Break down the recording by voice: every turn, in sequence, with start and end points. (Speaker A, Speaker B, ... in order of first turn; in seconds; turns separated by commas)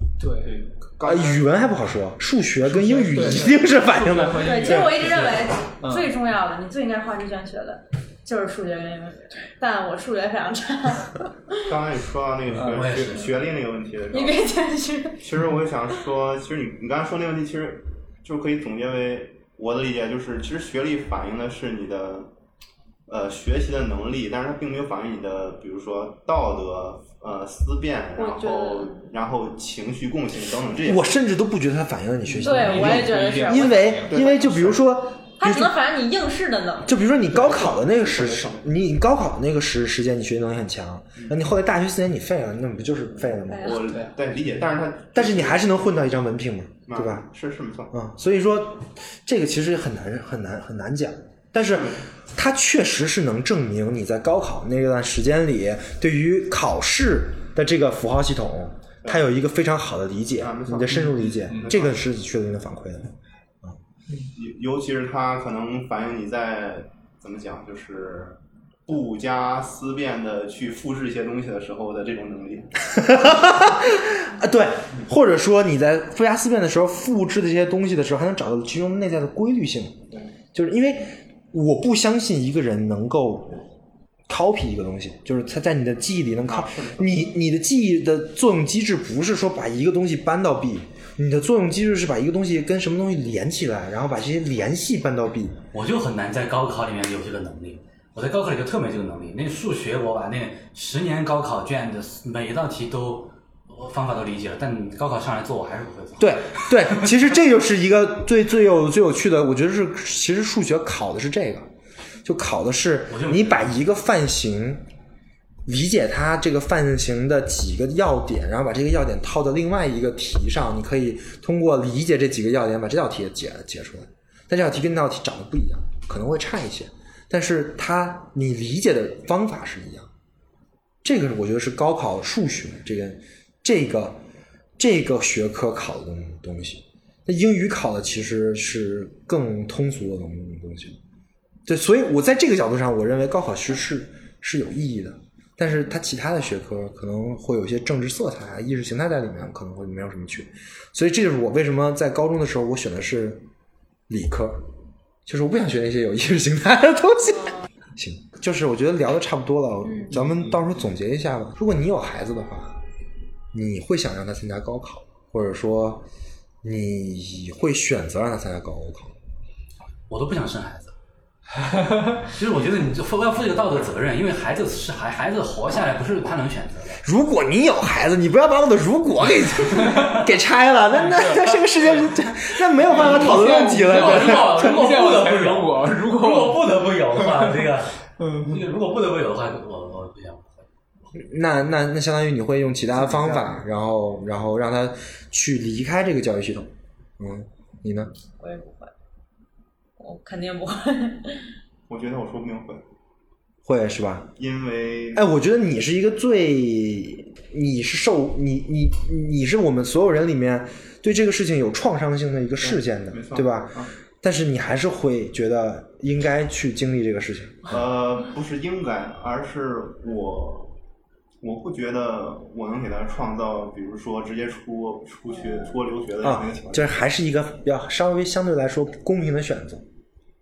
Speaker A: 0.2-0.6, Speaker B: 0.4-1.4, Speaker C: 1.0-5.1, Speaker A: 2.6-5.3, Speaker D: 4.4-11.6, Speaker E: 5.0-5.4, Speaker A: 5.8-6.1, Speaker B: 11.7-14.4, Speaker A: 12.6-12.9, Speaker E: 12.6-13.4, Speaker D: 14.1-15.2, Speaker B: 15.2-22.3, Speaker B: 23.1-31.1, Speaker D: 28.2-29.1, Speaker C: 30.9-35.7, Speaker A: 32.3-34.7, Speaker D: 32.4-33.9, Speaker B: 34.1-34.8, Speaker D: 35.4-37.0, Speaker C: 36.9-43.8, Speaker B: 37.3-38.6, Speaker D: 43.5-43.8, Speaker B: 43.5-45.8, Speaker C: 45.1-47.3, Speaker B: 46.9-47.9, Speaker C: 47.9-63.8, Speaker B: 51.7-52.0, Speaker B: 60.4-62.0, Speaker B: 64.3-72.8, Speaker C: 72.9-83.6, Speaker C: 84.3-95.6, Speaker B: 86.5-87.2, Speaker E: 95.7-107.1, Speaker C: 106.2-111.7, Speaker C: 112.2-114.8, Speaker E: 113.1-113.7, Speaker C: 115.7-130.1, Speaker C: 131.0-134.2, Speaker C: 134.8-141.0, Speaker C: 141.7-153.4, Speaker C: 154.1-154.7, Speaker C: 155.3-162.8, Speaker C: 163.5-166.1, Speaker C: 166.6-169.2, Speaker E: 170.1-170.9, Speaker A: 171.7-172.2, Speaker E: 172.3-177.0, Speaker C: 177.0-184.7, Speaker A: 181.1-181.5, Speaker A: 182.9-186.6, Speaker E: 182.9-190.7, Speaker A: 187.2-187.5, Speaker A: 188.2-188.6, Speaker C: 191.2-198.1, Speaker B: 193.1-193.5, Speaker D: 198.4-198.9, Speaker D: 200.0-201.5, Speaker B: 201.9-202.8, Speaker C: 203.7-204.3, Speaker B: 204.4-205.2, Speaker C: 205.2-217.8, Speaker B: 212.6-213.9, Speaker B: 217.7-220.7, Speaker B: 221.4-227.0, Speaker C: 226.2-229.8